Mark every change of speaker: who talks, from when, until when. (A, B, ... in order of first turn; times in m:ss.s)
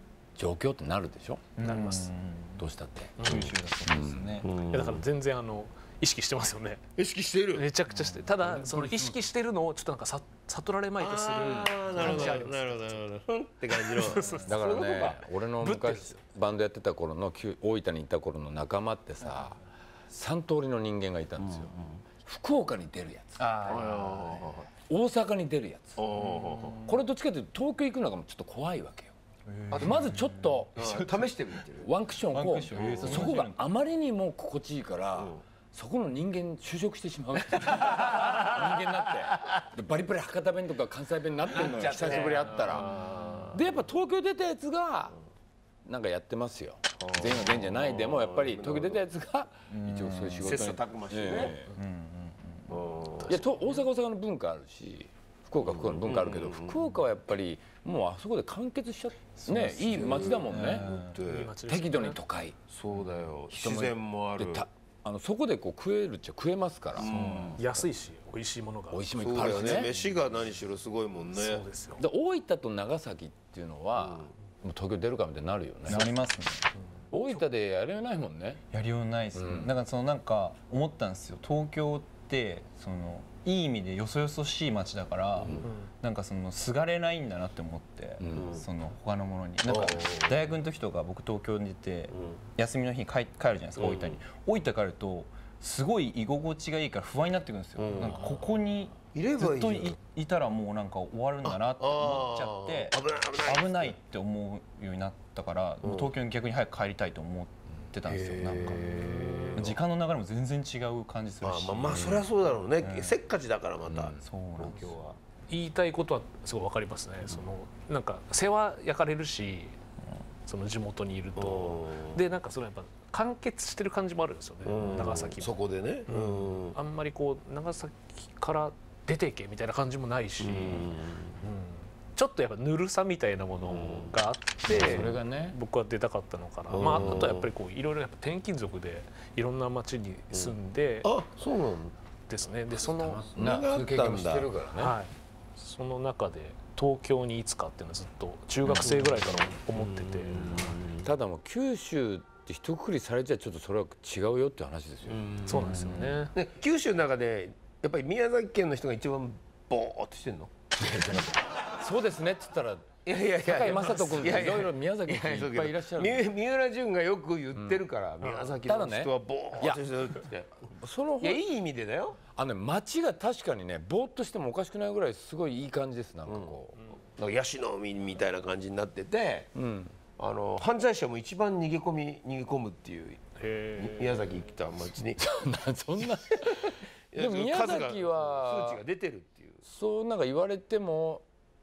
0:00.4-0:01.6 A
0:01.6-0:02.7 B
0:01.6-0:02.1 C
0:02.6-0:04.4 A
0:03.2-0:03.5 C
0:03.2-0:04.5 B
0:04.4-0:05.0 D
0:04.5-0:06.8 C
0:07.0-0:07.7 D
0:07.5-0:13.0 C
0:07.9-0:08.3 B
0:08.5-0:09.1 A
0:11.0-0:15.2 D
0:13.7-0:16.2 C
0:14.4-0:19.6 A
0:20.1-0:24.0 A
0:21.4-0:22.0 D
0:23.4-0:24.6 B
0:23.6-0:24.7 D
0:24.7-0:26.0 A
0:26.0-0:26.8 D
0:26.2-0:26.8 B
0:26.8-0:29.2 A
0:29.5-0:31.2 B
0:29.7-0:30.8 A
0:29.7-0:30.0 D
0:30.8-0:31.9 D
0:31.8-0:43.0 A
0:32.3-0:33.6 B
0:32.7-0:33.4 D
0:35.2-0:35.4 D
0:37.9-0:38.7 D
0:41.5-0:43.7 D
0:43.5-0:45.2 A
0:45.8-0:51.7 A
0:47.0-0:49.0 D
0:49.7-0:50.6 B
0:50.4-0:51.6 D
0:51.7-0:52.8 B
0:52.7-0:53.4 D
0:53.3-1:01.0 A
0:55.6-0:56.8 D
0:59.4-1:01.2 B
0:59.8-1:01.5 D
1:01.2-1:02.2 C
1:01.7-1:02.6 A
1:02.7-1:04.7 D
1:03.5-1:07.6 A
1:07.0-1:07.6 D
1:07.0-1:07.6 B
1:07.6-1:09.8 C
1:08.9-1:09.9 A
1:09.2-1:11.6 D
1:11.3-1:12.0 C
1:12.0-1:16.2 A
1:15.9-1:16.7 B
1:17.1-1:18.6 A
1:18.7-1:52.2 B
1:19.3-1:19.7 A
1:28.3-1:28.7 D
1:29.6-1:30.5 D
1:32.1-1:32.4 D
1:33.8-1:34.2 D
1:37.8-1:38.4 D
1:39.1-1:40.0 D
1:41.4-1:44.0 D
1:45.8-1:46.1 D
1:48.1-1:49.8 D
1:49.1-1:49.6 C
1:51.4-1:55.2 D
1:51.9-1:52.2 A
1:52.8-1:53.2 B
1:53.9-1:54.2 A
1:54.2-1:55.0 B
1:55.5-1:59.8 C
2:00.4-2:21.1 C
2:01.4-2:02.2 D
2:04.6-2:06.8 D
2:10.4-2:11.4 D
2:13.7-2:14.1 D
2:14.7-2:15.6 A
2:14.7-2:15.1 D
2:16.7-2:17.5 D
2:20.3-2:22.0 D
2:22.3-2:23.4 C
2:22.9-2:25.0 A
2:23.4-2:24.5 D
2:24.8-2:30.7 C
2:28.7-2:31.1 D
2:31.0-2:36.2 A
2:35.1-2:35.8 D
2:35.5-2:36.4 C
2:36.3-2:40.5 D
2:40.8-2:46.3 A
2:43.0-2:50.7 D
2:47.6-2:47.8 A
2:48.2-2:48.6 C
2:48.6-2:49.9 A
2:50.7-2:51.4 A
2:51.2-2:52.2 D
2:52.3-2:56.7 A
2:56.3-2:56.6 D
2:57.2-2:59.5 D
2:59.6-3:00.0 A
3:00.2-3:03.2 D
3:03.4-3:04.3 C
3:03.8-3:05.2 D
3:05.2-3:08.8 A
3:06.3-3:09.6 D
3:09.7-3:11.3 A